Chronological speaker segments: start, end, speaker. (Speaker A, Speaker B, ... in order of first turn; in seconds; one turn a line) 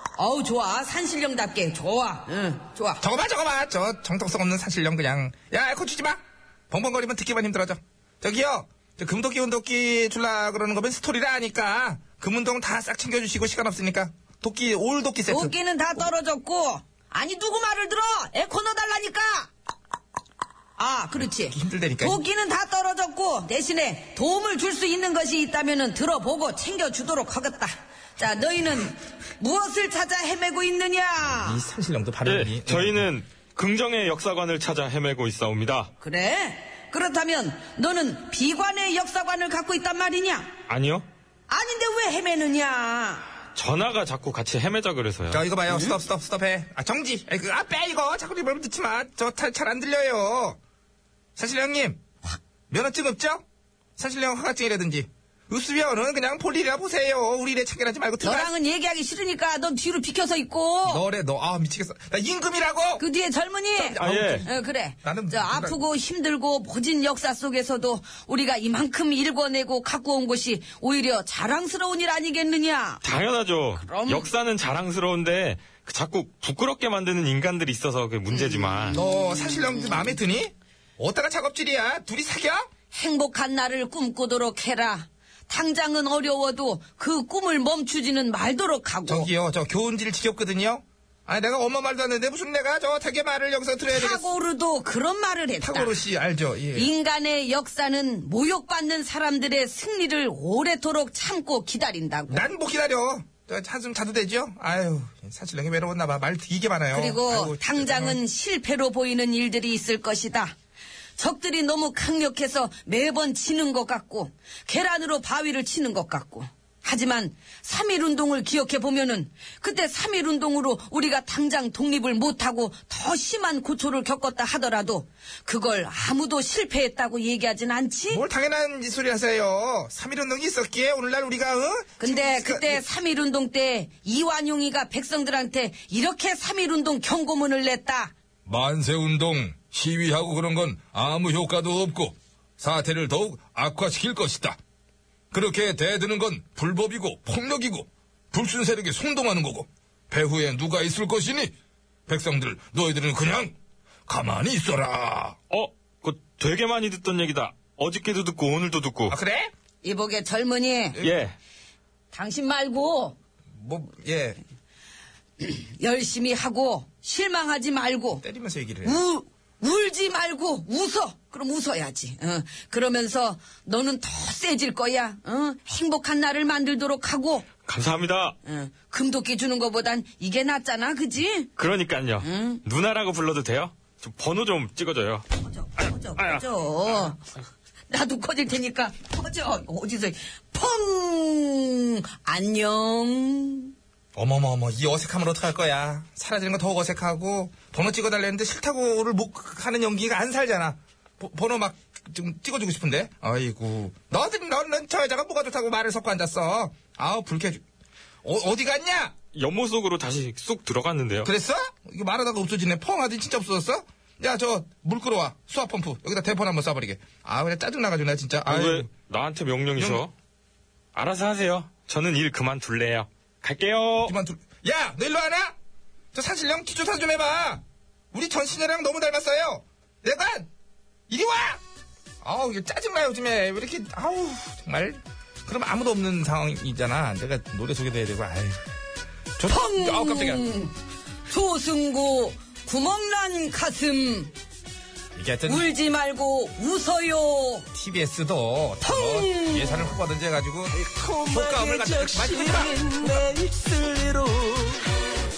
Speaker A: 0.2-3.0
Speaker B: 3.0-16.1
Speaker A: 15.3-19.5
Speaker A: 20.8-31.6
Speaker B: 21.5-22.2
Speaker B: 31.3-33.1
Speaker C: 32.2-35.9
Speaker A: 36.0-40.5
Speaker C: 40.7-41.1
Speaker A: 41.5-43.3
Speaker C: 43.5-45.4
Speaker B: 45.3-50.6
Speaker A: 45.7-45.9
Speaker B: 51.4-52.0
Speaker B: 52.7-53.4
Speaker B: 54.0-58.5
Speaker A: 58.2-61.0
Speaker B: 60.8-63.0
Speaker A: 63.0-73.1
Speaker B: 63.7-64.5
Speaker C: 64.0-64.4
Speaker B: 65.0-65.8
Speaker C: 73.0-79.0
Speaker A: 73.8-74.3
Speaker A: 78.3-80.2
Speaker B: 78.9-82.7
Speaker A: 82.9-89.3
Speaker B: 89.1-94.3
Speaker A: 93.9-96.0
Speaker B: 95.6-96.9
Speaker A: 96.7-102.5
Speaker B: 102.3-108.2
Speaker A: 106.9-110.5
Speaker A: 111.2-128.2
Speaker B: 128.1-132.8
Speaker A: 132.0-138.1
Speaker B: 138.5-144.5
Speaker D: 139.5-142.1
Speaker D: 143.4-144.4
Speaker B: 145.3-146.6
Speaker D: 145.3-151.5
Speaker D: 152.1-153.1
Speaker B: 152.1-153.5
Speaker D: 154.1-155.3
Speaker C: 155.5-159.2
Speaker B: 159.1-159.5
Speaker A: 159.8-161.0
Speaker C: 161.0-161.3
Speaker A: 162.1-163.2
Speaker B: 163.5-164.4
Speaker A: 165.4-168.2
Speaker B: 168.2-169.0
Speaker A: 168.8-177.5
Speaker C: 177.7-178.3
Speaker A: 178.4-181.5
Speaker C: 181.6-185.2
Speaker A: 182.2-182.6
Speaker A: 185.4-187.2
Speaker C: 186.2-186.4
Speaker A: 187.9-193.7
Speaker B: 194.1-207.6
Speaker B: 208.2-209.2
Speaker C: 209.3-211.3
Speaker B: 211.2-218.9
Speaker C: 218.4-220.1
Speaker B: 219.8-220.0
Speaker C: 220.9-224.1
Speaker B: 224.0-225.5
Speaker B: 226.1-230.5
Speaker B: 231.1-231.6
Speaker B: 232.2-238.6
Speaker B: 239.4-240.4
Speaker A: 239.4-240.7
Speaker A: 241.3-244.3
Speaker B: 245.1-245.7
Speaker A: 245.4-247.7
Speaker B: 247.7-253.3
Speaker A: 248.8-249.9
Speaker E: 250.8-255.0